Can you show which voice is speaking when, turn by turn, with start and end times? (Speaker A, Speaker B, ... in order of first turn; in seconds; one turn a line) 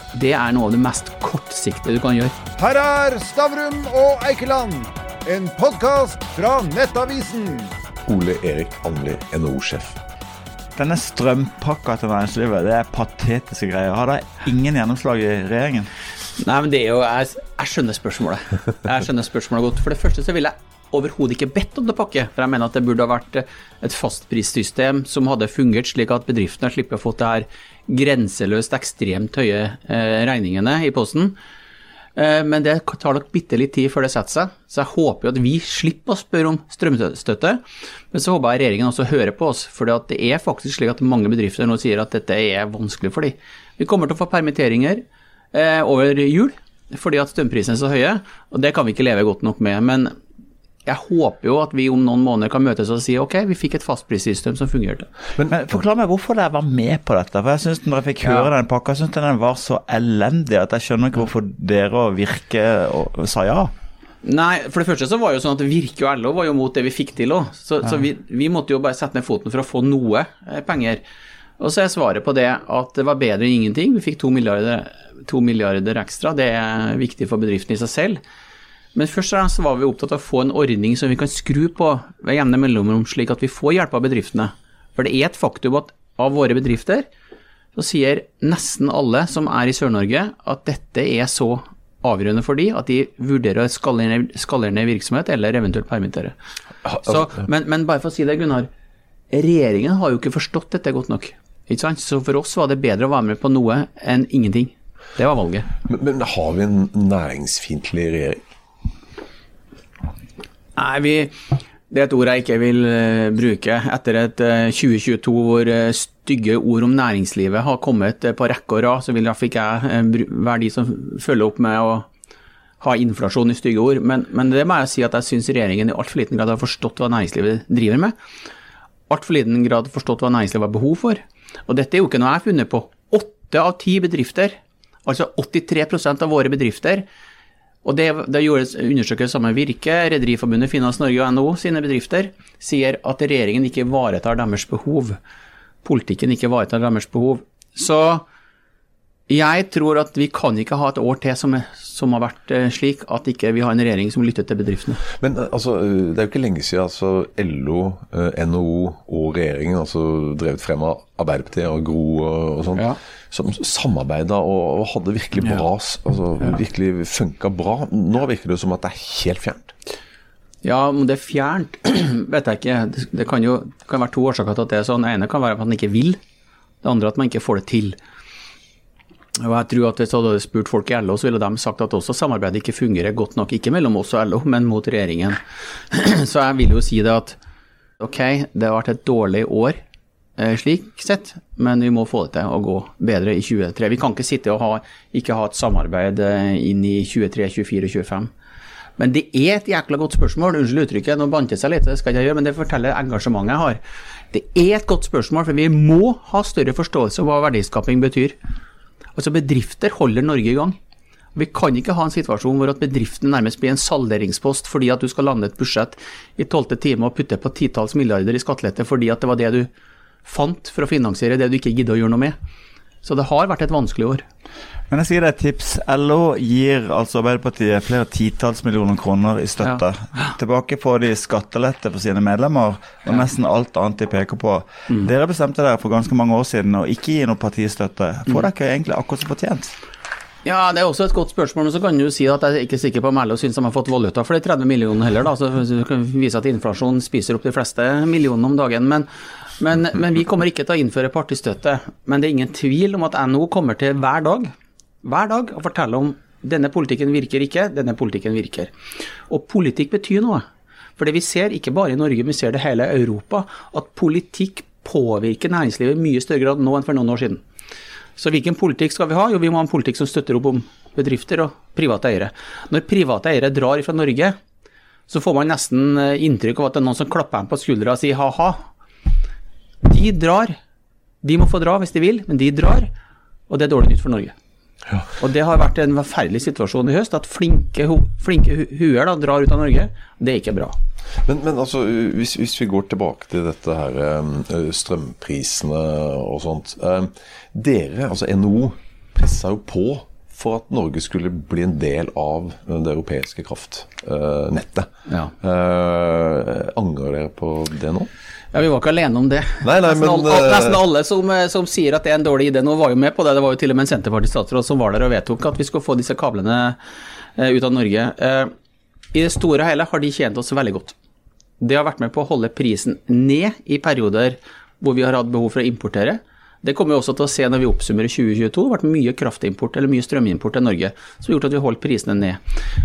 Speaker A: 0.1-2.4
Speaker B: 2.6-7.7
Speaker C: 8.1-10.0
Speaker D: 10.8-15.9
Speaker A: 16.4-31.4
Speaker A: 32.1-37.6
Speaker A: 38.1-50.2
Speaker A: 50.8-55.1
Speaker D: 55.5-63.7
Speaker A: 64.2-71.0
Speaker A: 71.6-78.2
Speaker A: 78.9-87.1
Speaker A: 87.7-96.3
Speaker C: 96.8-97.2
Speaker A: 97.0-98.7
Speaker A: 99.3-105.7
Speaker C: 105.8-108.4
Speaker A: 110.8-122.0
Speaker A: 122.8-128.1
Speaker A: 129.1-137.1
Speaker A: 137.8-145.2
Speaker A: 145.8-148.2
Speaker A: 149.3-155.0
Speaker C: 155.2-169.7
Speaker A: 170.6-176.2
Speaker A: 176.8-178.0
Speaker A: 179.4-187.4
Speaker A: 188.0-189.8
Speaker A: 190.4-198.3
Speaker A: 199.0-203.8
Speaker A: 204.3-208.4
Speaker A: 209.1-210.8
Speaker A: 211.3-219.7
Speaker A: 220.2-222.3
Speaker A: 223.0-224.2
Speaker D: 224.9-239.7
Speaker A: 240.4-254.5
Speaker A: 255.0-258.7
Speaker A: 259.3-260.4
Speaker A: 261.0-267.4
Speaker A: 268.2-274.4
Speaker A: 275.1-278.6
Speaker A: 279.8-280.6
Speaker A: 281.2-282.9
Speaker A: 283.5-284.3
Speaker A: 285.2-290.8
Speaker C: 291.2-308.1
Speaker A: 308.5-316.8
Speaker C: 309.6-310.8
Speaker A: 317.4-318.5
Speaker A: 319.1-320.9
Speaker A: 321.6-332.4